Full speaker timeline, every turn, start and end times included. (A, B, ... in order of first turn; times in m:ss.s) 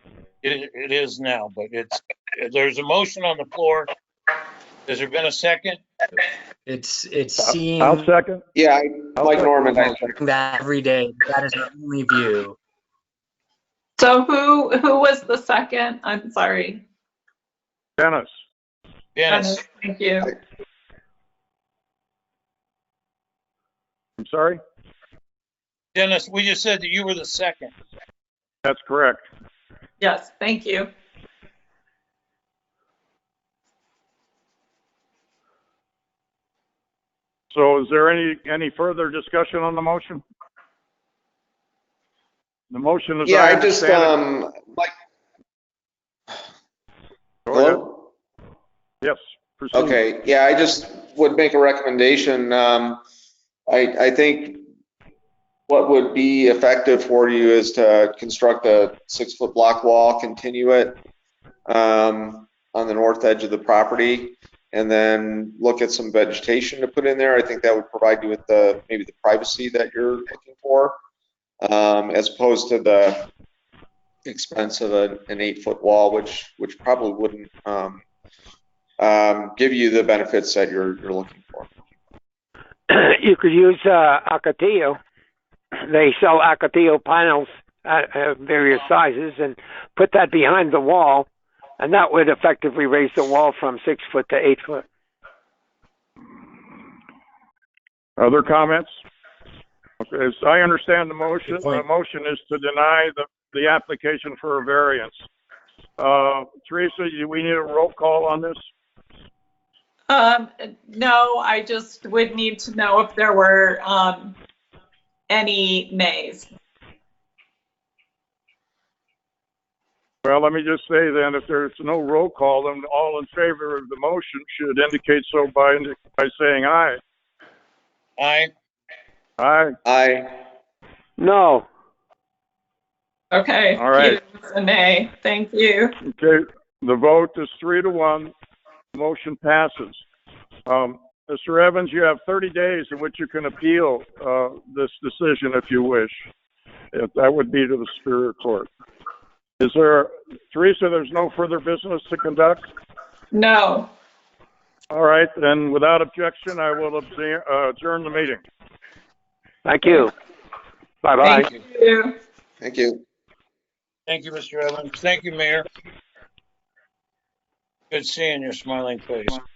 0:00.4-0:03.9 A
0:04.9-0:05.8 A
0:06.6-0:08.1 B
0:07.4-0:08.4 C
0:08.5-0:10.2 D
0:09.2-0:09.5 C
0:09.7-0:12.6 B
0:14.0-0:16.8 E
0:18.0-0:18.4 C
0:19.2-0:19.6 A
0:19.3-0:20.3 E
0:24.2-0:24.6 C
0:25.9-0:27.7 A
0:28.6-0:29.2 C
0:30.0-0:30.9 E
0:37.5-0:40.2 C
0:42.7-0:44.1 C
0:43.2-0:44.9 D
0:47.4-0:47.8 C
0:47.5-0:48.0 D
0:49.0-0:50.0 C
0:49.7-0:53.0 D
0:53.7-0:54.6 D
0:55.7-1:01.0 D
1:01.6-1:11.0 D
1:11.6-1:13.3 D
1:14.2-1:18.0 D
1:19.0-1:21.7 D
1:22.9-1:25.0 F
1:25.8-1:31.3 F
1:31.8-1:34.8 F
1:38.2-1:39.0 C
1:40.0-1:45.2 C
1:41.5-1:41.8 B
1:46.0-1:48.6 C
1:50.1-1:54.3 E
1:55.3-1:56.5 E
2:00.2-2:07.0 C
2:08.2-2:08.5 A
2:09.4-2:09.8 C
2:09.8-2:10.3 D
2:11.2-2:11.6 F
2:13.3-2:15.9 E
2:13.8-2:14.2 C
2:16.0-2:18.3 C
2:18.9-2:20.0 C
2:20.6-2:26.2 C
2:26.9-2:28.7 C
2:29.6-2:32.6 C
2:33.3-2:33.9 E
2:34.9-2:38.4 C
2:39.6-2:40.1 F
2:41.0-2:41.5 F
2:41.2-2:42.1 E
2:42.6-2:43.0 D
2:44.1-2:45.6 A
2:47.9-2:49.4 A